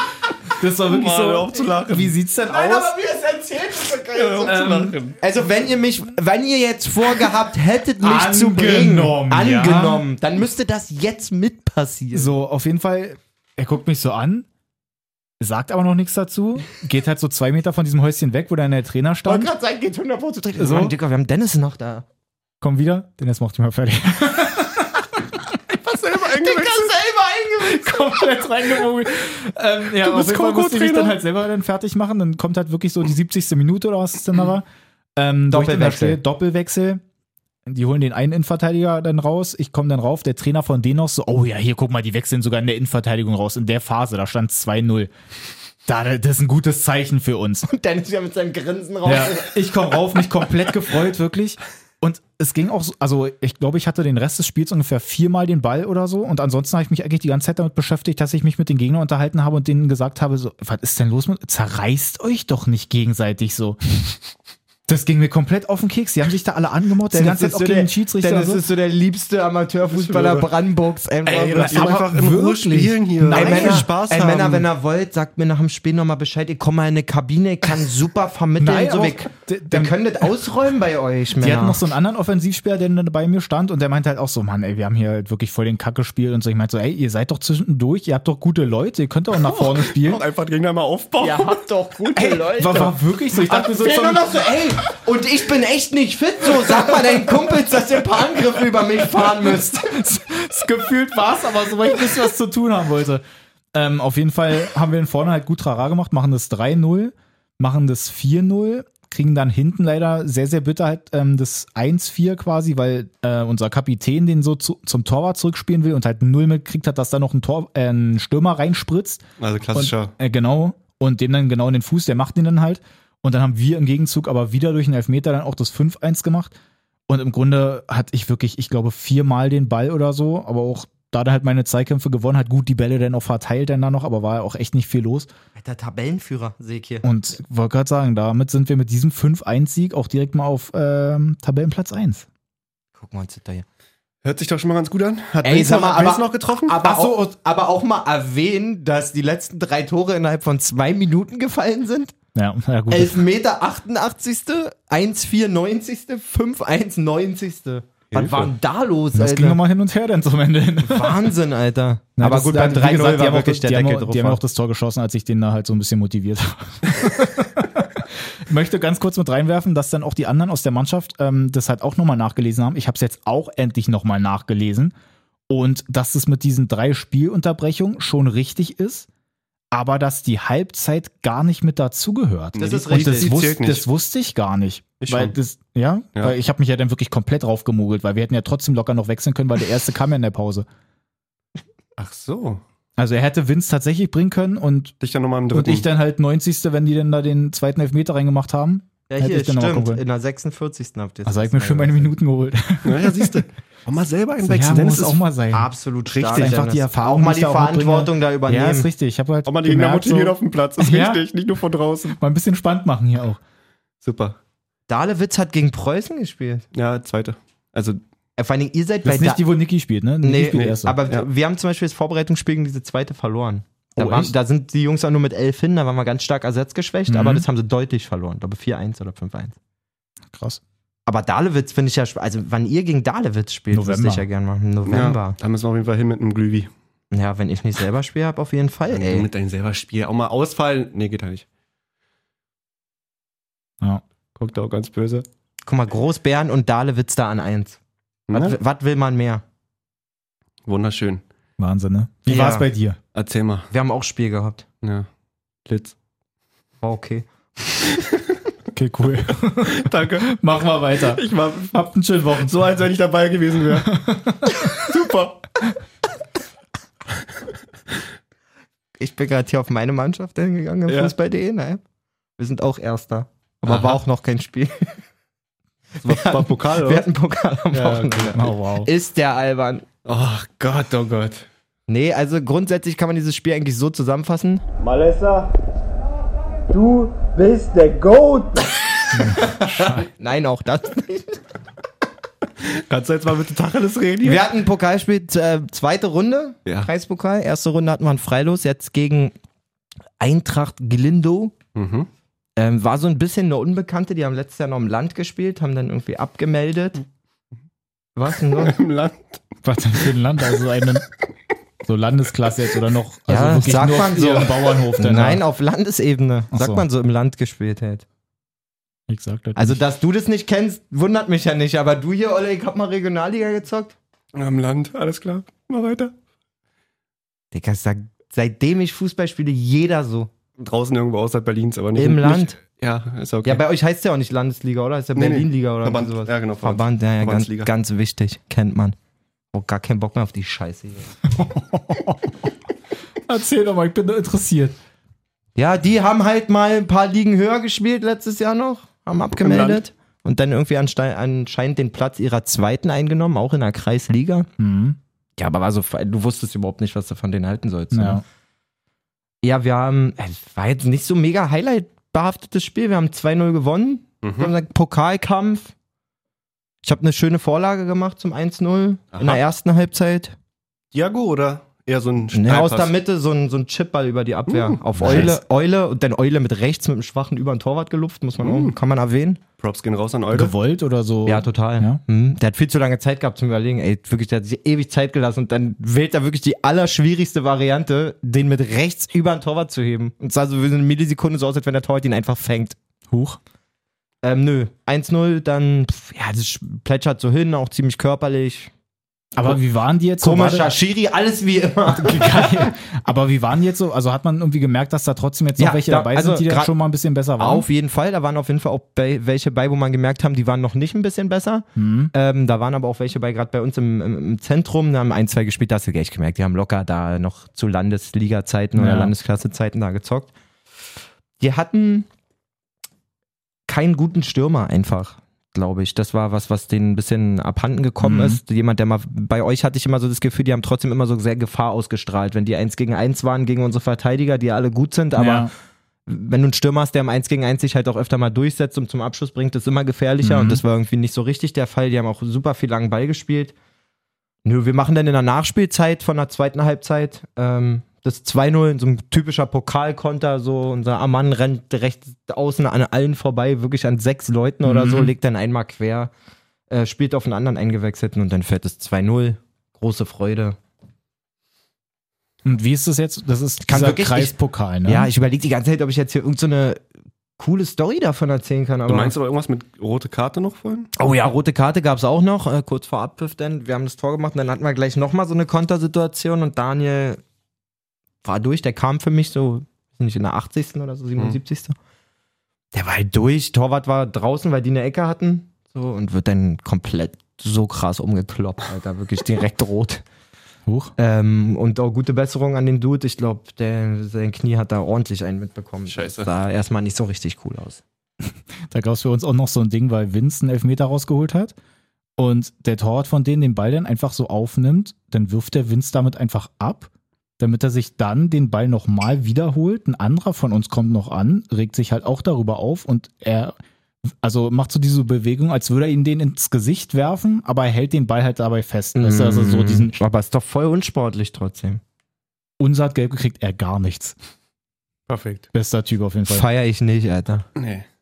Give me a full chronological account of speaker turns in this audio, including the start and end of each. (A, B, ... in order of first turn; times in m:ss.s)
0:00.6-0:02.9 A
0:00.9-0:02.1 B
0:02.4-0:12.3 C
0:04.1-0:05.2 B
0:04.4-0:05.0 A
0:08.0-0:10.0 A
0:12.1-0:14.5 A
0:15.4-0:19.5 A
0:19.3-0:22.0 C
0:20.6-0:20.9 A
0:22.6-0:25.4 A
0:25.8-0:26.9 B
0:26.3-0:28.2 C
0:27.6-0:34.6 A
0:30.0-0:31.2 B
0:35.2-0:37.0 A
0:35.5-0:36.2 C
0:37.6-0:45.1 A
0:45.8-0:47.7 A
0:47.6-0:49.6 C
0:49.0-1:04.1 A
1:04.9-1:08.6 A
1:07.1-1:12.0 C
1:09.9-1:10.5 B
1:11.2-1:14.6 B
1:11.6-1:14.0 A
1:13.2-1:21.8 C
1:18.6-1:20.0 A
1:21.4-1:30.2 A
1:29.4-1:31.6 B
1:31.2-1:40.2 C
1:32.1-1:34.3 A
1:40.1-1:43.2 A
1:43.7-2:06.6 A
1:59.4-2:00.1 B
2:07.1-2:15.3 A
2:15.6-2:17.1 C
2:17.0-2:22.2 A
2:23.0-2:23.6 C
2:24.2-2:26.8 B
2:25.4-2:32.1 C
2:26.8-2:27.1 A
2:32.3-2:33.2 A
2:32.9-2:39.6 C
2:38.1-2:38.5 B
2:39.1-2:41.3 A
2:40.8-2:44.4 C
2:42.2-2:54.9 A
2:55.5-2:59.1 A
2:59.7-3:10.6 A
3:02.6-3:03.8 B
3:02.6-3:03.5 C
3:05.0-3:05.3 B
3:12.0-3:12.6 B
3:13.0-3:14.9 A
3:15.0-3:15.8 B
3:15.5-3:20.0 A
3:19.1-3:22.1 C
3:21.2-3:23.4 A
3:22.8-3:25.2 B
3:24.4-3:25.7 A
3:25.5-3:28.9 C
3:26.2-3:31.2 A
3:29.4-3:32.2 B
3:32.1-3:33.4 A
3:34.0-3:34.4 B
3:34.9-3:36.6 C
3:36.7-3:38.0 B
3:38.4-3:39.4 C
3:39.0-3:41.0 A
3:40.2-3:49.6 C
3:40.5-3:41.2 B
3:44.0-3:44.3 A
3:47.1-3:47.4 A
3:50.3-3:50.6 A
3:51.0-3:55.4 C
3:53.7-3:54.2 A
3:54.8-3:56.7 B
3:57.1-3:59.3 C
3:58.9-4:01.4 B
4:04.4-4:05.2 B
4:05.6-4:07.8 C
4:08.3-4:08.6 B
4:08.3-4:09.4 C
4:10.6-4:11.2 B
4:11.6-4:13.0 A
4:12.3-4:12.7 C
4:13.1-4:13.7 B
4:13.7-4:14.6 C
4:14.8-4:15.1 B
4:15.7-4:15.9 B
4:16.8-4:17.3 C
4:18.7-4:22.6 A
4:19.6-4:20.4 B
4:21.0-4:21.8 B
4:22.4-4:23.9 B
4:23.8-4:24.6 A
4:24.7-4:25.4 B
4:29.0-4:31.8 C
4:30.9-4:31.1 B
4:32.4-4:34.9 C
4:33.6-4:34.0 B
4:36.0-4:39.8 C
4:36.0-4:37.0 B
4:37.7-4:38.4 B
4:38.3-4:38.9 A
4:40.0-4:41.4 B
4:41.9-4:44.6 C
4:44.8-4:45.5 B
4:46.7-4:48.7 D
4:49.1-4:51.4 C
4:49.1-4:50.1 A
4:52.6-4:54.5 B
4:54.2-4:59.3 C
5:00.2-5:01.5 C
5:01.7-5:02.1 B
5:02.6-5:07.0 C
5:08.2-5:08.8 C
5:08.5-5:09.4 B
5:09.6-5:11.0 A
5:11.8-5:15.4 A
5:13.3-5:18.0 C
5:16.5-5:16.8 A
5:19.1-5:19.8 A
5:19.6-5:24.0 C
5:24.3-5:26.1 B
5:27.5-5:30.3 C
5:30.6-5:33.6 B
5:32.0-5:32.6 C
5:33.4-5:39.0 C
5:35.2-5:37.7 B
5:39.5-5:41.1 C
5:41.3-5:42.4 A
5:43.2-5:44.8 A
5:45.6-5:54.5 C
5:49.4-5:49.8 B
5:54.6-5:55.0 A
5:55.4-5:58.2 C
5:57.9-5:58.2 A
5:59.4-6:05.7 C
6:04.2-6:04.5 B
6:06.8-6:10.3 C
6:09.1-6:09.4 B
6:10.9-6:12.9 B
6:12.3-6:19.4 C
6:14.5-6:15.4 B
6:15.0-6:15.4 A
6:18.4-6:18.7 B
6:19.6-6:20.5 B
6:20.3-6:22.0 A
6:21.2-6:32.8 C
6:33.1-6:33.4 A
6:34.2-6:38.7 C
6:39.4-6:40.7 A
6:40.2-6:42.7 C
6:41.9-6:47.6 A
6:45.6-6:46.7 C
6:47.4-7:00.3 C
6:51.8-6:52.1 A
6:58.8-6:59.1 A
7:01.4-7:02.1 C
7:03.7-7:15.5 C
7:08.0-7:08.4 A
7:15.2-7:15.5 A
7:16.0-7:23.5 C
7:20.2-7:20.6 A
7:24.4-7:36.1 C
7:34.6-7:35.1 A
7:36.7-7:40.6 C
7:42.4-7:45.1 A
7:43.6-7:46.8 C
7:47.4-7:49.1 C
7:48.9-7:50.9 B
7:51.0-7:57.2 C
7:58.2-8:01.8 C
8:02.7-8:10.0 C
8:10.6-8:10.9 A
8:11.0-8:17.8 C
8:15.9-8:16.3 B
8:18.7-8:21.5 A
8:22.2-8:33.5 A
8:34.2-8:40.0 A
8:39.0-8:41.8 C
8:42.6-8:44.2 A
8:45.1-8:45.5 B
8:45.5-8:46.4 A
8:46.3-8:47.4 C
8:47.6-8:47.8 B